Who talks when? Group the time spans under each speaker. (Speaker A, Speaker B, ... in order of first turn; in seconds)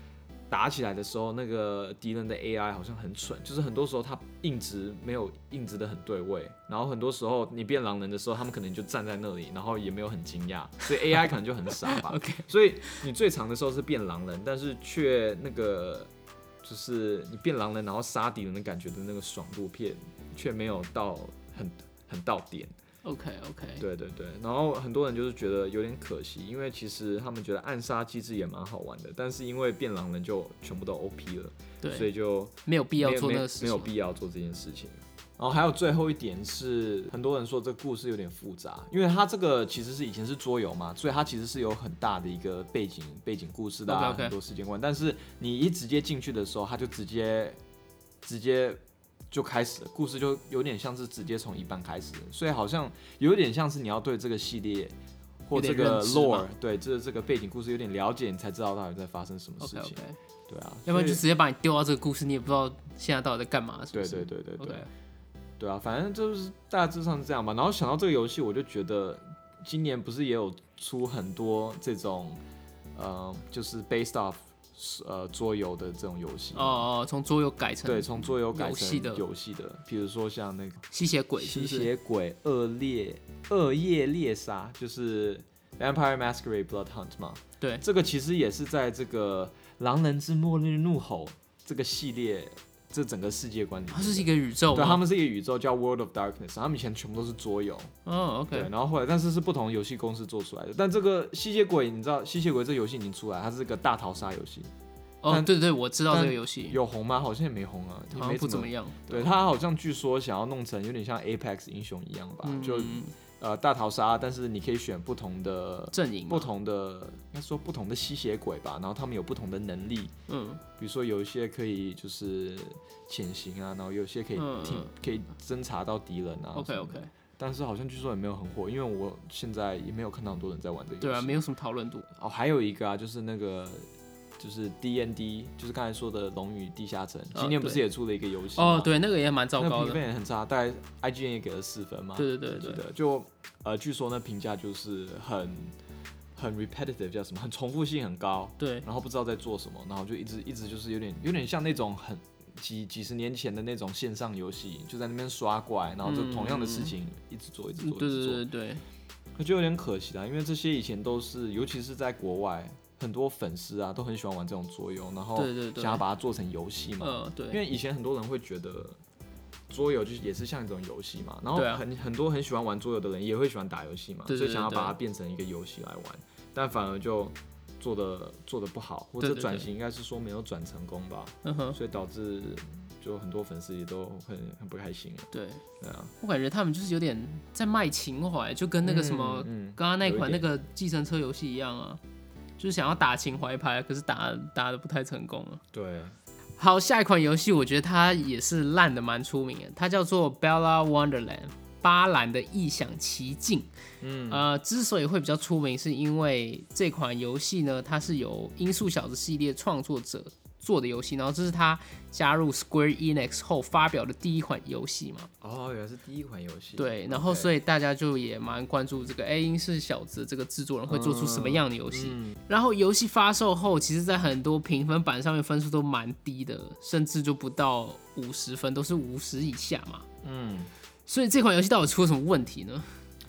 Speaker A: 0.5-16.1, 16.6-22.7, 23.8-47.6, 48.2-61.2, 63.9-64.9, 65.6-72.4, 72.9-76.9, 77.8-80.8, 81.4-97.9, 98.5-104.7, 106.1-120.1, 120.8-131.4, 132.1-133.9, 134.4-138.9, 139.6-145.7, 146.3-158.4, 159.4-169.0, 169.7-185.3, 185.8-186.1, 188.8-190.5, 195.7-196.2, 204.0-204.4, 215.4-217.5, 220.9-222.4, 230.2-230.7
Speaker B: 11.8-13.0, 23.0-23.8, 31.8-32.1, 32.6-33.9, 43.9-44.4, 55.5-56.5, 59.6-60.2, 60.9-64.9, 76.5-79.2, 80.9-81.9, 93.9-95.0, 98.0-98.7, 105.2-106.8, 108.1-109.3, 112.4-113.1, 115.9-116.5, 120.3-120.6, 124.3-124.9, 126.5-127.1, 131.0-132.1, 137.3-137.8, 138.5-140.0, 142.2-142.8, 148.6-148.8, 156.0-156.9, 157.8-158.8, 165.3-166.0, 167.0-167.6, 171.5-171.8, 174.3-175.0, 179.2-179.7, 181.4-181.8, 185.3-185.6, 186.2-192.0, 192.6-195.6, 196.6-203.7, 204.3-215.3, 216.8-230.1, 231.1-232.9